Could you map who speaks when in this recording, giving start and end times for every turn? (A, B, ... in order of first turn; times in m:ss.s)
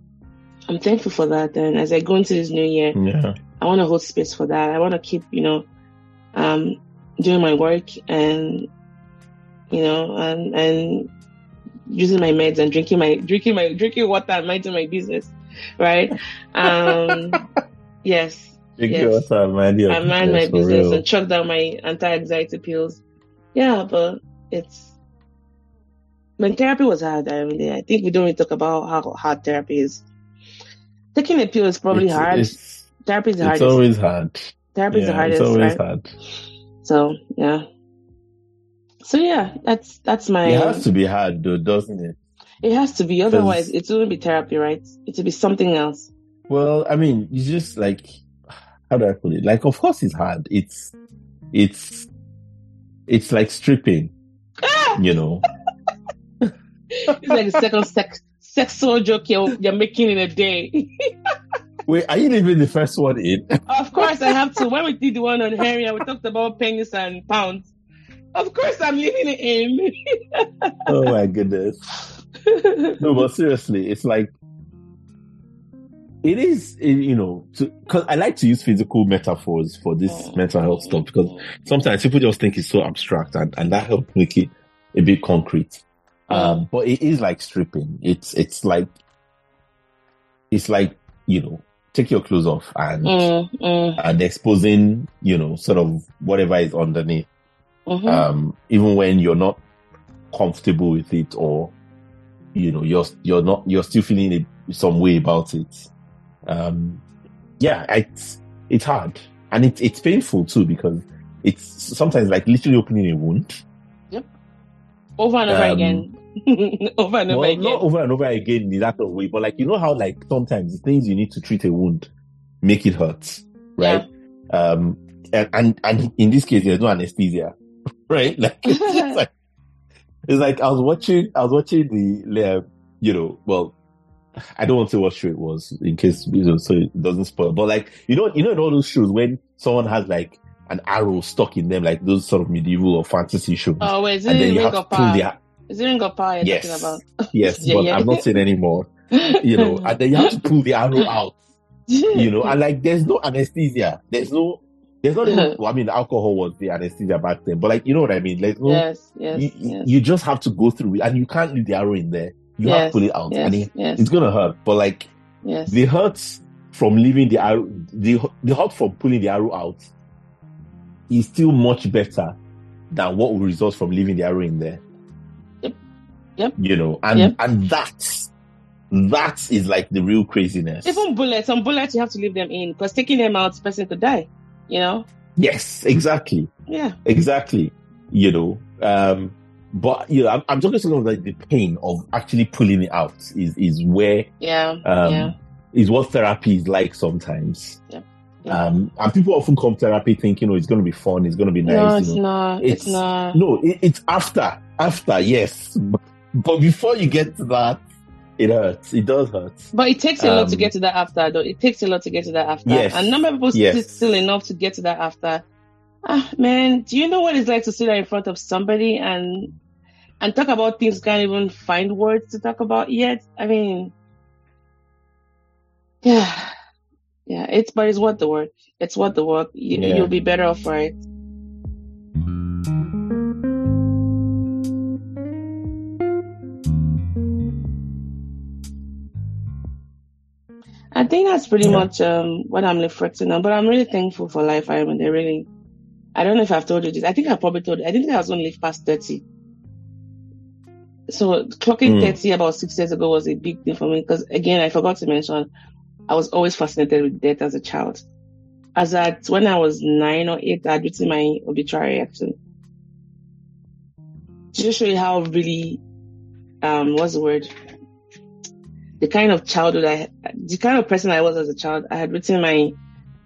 0:00.7-0:03.0 A
0:02.9-0:03.4 B
0:03.6-0:05.6 A
0:06.3-0:08.7 A
0:09.7-0:11.1 A
0:11.9-0:17.4 A
0:16.7-0:17.4 B
0:18.0-0:19.2 A
0:18.8-0:21.0 B
0:19.9-0:23.0 A
0:23.5-0:24.9 A
0:26.4-0:30.0 A
0:31.1-0:33.8 A
0:31.9-0:32.9 B
0:33.4-0:36.1 B
0:34.7-0:35.8 A
0:36.8-0:37.6 A
0:39.0-0:40.8 A
0:40.4-0:42.2 B
0:42.6-0:46.1 A
0:43.3-0:43.7 B
0:46.5-0:48.2 B
0:48.9-0:50.9 B
0:51.5-0:52.1 B
0:53.1-0:54.1 B
0:54.6-0:55.0 A
0:55.0-0:55.4 B
0:57.0-1:00.9 A
0:57.1-0:57.4 B
1:01.8-1:04.3 B
1:03.7-1:07.7 A
1:08.3-1:09.9 A
1:10.9-1:11.8 B
1:12.5-1:13.2 A
1:13.0-1:14.3 B
1:16.2-1:28.9 B
1:20.1-1:21.5 A
1:26.3-1:26.6 A
1:30.5-1:33.3 B
1:33.0-1:34.0 A
1:34.0-1:37.3 B
1:37.9-1:38.2 A
1:38.0-1:39.6 B
1:40.3-1:41.7 B
1:42.5-1:45.9 B
1:46.4-1:47.0 B
1:47.6-1:53.6 B
1:55.2-1:57.8 A
1:55.5-1:56.0 B
1:57.3-2:02.1 B
2:02.6-2:07.5 B
2:03.8-2:04.0 A
2:08.1-2:09.3 B
2:08.6-2:09.1 A
2:10.3-2:13.7 B
2:14.6-2:25.4 B
2:23.8-2:28.2 A
2:26.4-2:31.4 B
2:29.2-2:30.4 A
2:31.9-2:32.6 A
2:32.1-2:45.1 B
2:35.2-2:35.5 A
2:38.6-2:39.9 A
2:42.6-2:44.0 A
2:45.4-2:45.8 A
2:45.7-2:49.8 B
2:51.1-2:52.4 B
2:52.9-2:54.8 B
2:56.6-2:58.3 B
2:58.9-3:01.0 B
3:00.8-3:05.0 A
3:05.4-3:06.5 B
3:06.7-3:07.0 A
3:07.0-3:14.3 B
3:14.4-3:15.3 A
3:14.8-3:17.8 B
3:17.9-3:18.6 A
3:18.5-3:27.8 B
3:21.6-3:23.4 A
3:28.4-3:30.7 B
3:29.7-3:35.4 A
3:32.6-3:34.1 B
3:36.1-3:39.5 A
3:40.2-3:43.9 A
3:46.0-3:46.5 A
3:47.3-3:51.0 A
3:49.7-3:50.1 B
4:00.9-4:05.5 A
4:01.6-4:01.9 B
4:06.1-4:09.2 A
4:11.1-4:15.5 A
4:11.8-4:12.2 B
4:16.1-4:18.0 A
4:18.8-4:22.4 A
4:24.5-4:25.8 A
4:26.6-4:27.5 A
4:29.0-4:32.7 A